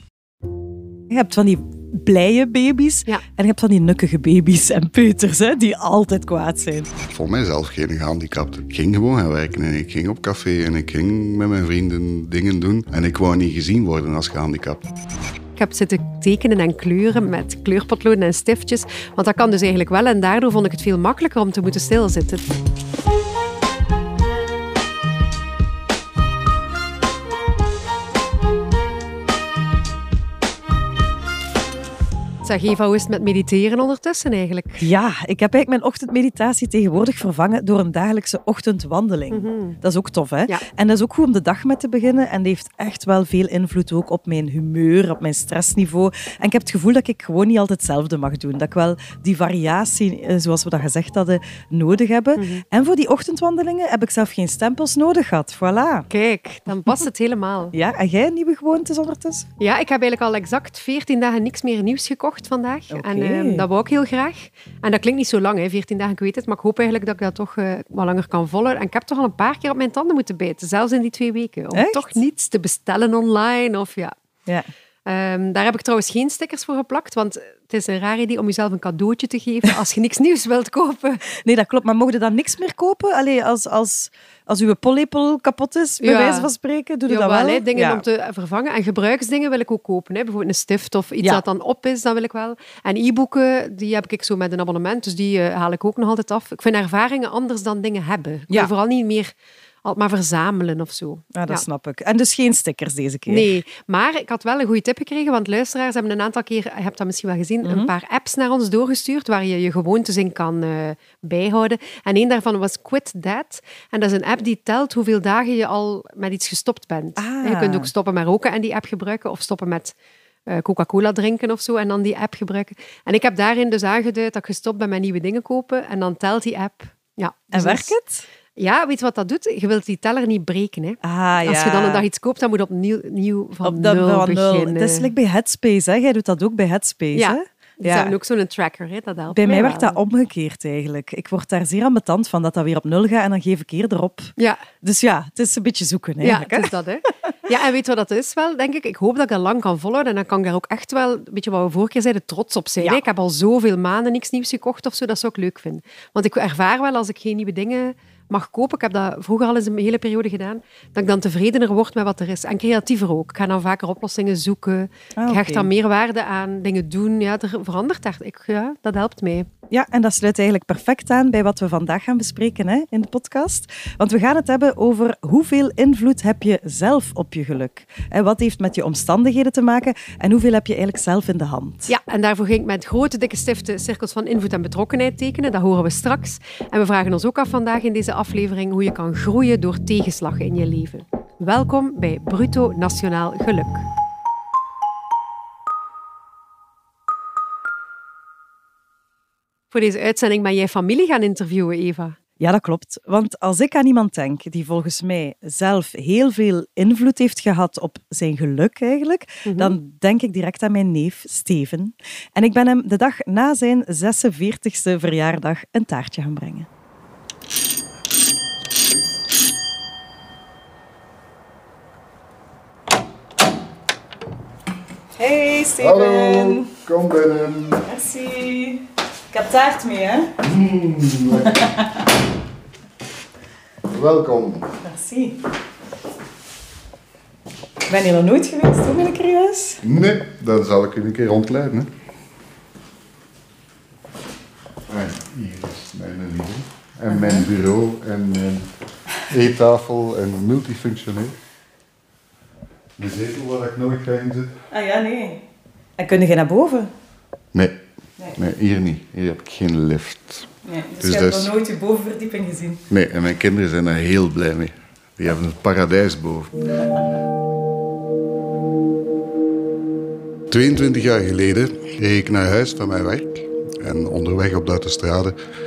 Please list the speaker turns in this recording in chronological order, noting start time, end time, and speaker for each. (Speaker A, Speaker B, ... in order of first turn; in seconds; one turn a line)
Speaker A: 1.1-6.9
Speaker B: 7.1-14.9
Speaker C: 15.6-22.5
Speaker C: 32.4-34.9
Speaker A: 34.8-56.1
Speaker C: 39.3-39.8
Speaker C: 52.4-52.6
Speaker C: 56.1-57.7
Speaker A: 57.7-59.5
Speaker C: 59.6-74.1
Speaker A: 62.9-63.6
Speaker A: 71.7-72.2
Speaker C: 75.0-81.2
Speaker A: 81.3-88.0
Speaker C: 86.0-86.5
Speaker C: 87.1-99.3
Speaker C: 99.8-101.6
Speaker A: 101.3-103.6
Speaker C: 103.3-119.9
Speaker A: 107.6-107.9
Speaker A: 117.2-117.9
Speaker C: 120.5-127.9
Speaker A: 127.5-128.2
Speaker C: 128.6-135.1
Speaker A: 131.0-132.0
Speaker A: 133.6-138.1
Speaker C: 137.1-140.0
Speaker A: 139.3-146.7
Speaker C: 144.4-144.6
Speaker C: 146.2-169.5
Speaker A: 165.2-165.7
Speaker A: 169.7-181.9
Speaker C: 181.9-193.8
Speaker C: 199.7-202.2
Speaker A: 202.4-216.7
Speaker C: 209.4-209.7
Speaker A: 225.2-226.7
Speaker B: 225.8-227.8
Speaker A: 227.8-230.4
Speaker B: 230.4-231.8
Speaker A: 231.4-231.7
Speaker B: 233.9-234.7
Speaker A: 234.8-235.4
Speaker A: 237.9-239.8
Speaker B: 239.8-241.9
Speaker B: 244.9-248.7
Speaker A: 247.1-247.4
Speaker B: 249.2-251.3
Speaker B: 253.0-254.5
Speaker A: 254.7-255.4
Speaker A: 256.0-256.9
Speaker B: 258.3-261.5
Speaker A: 260.6-262.8
Speaker B: 262.9-266.7
Speaker B: 270.5-275.3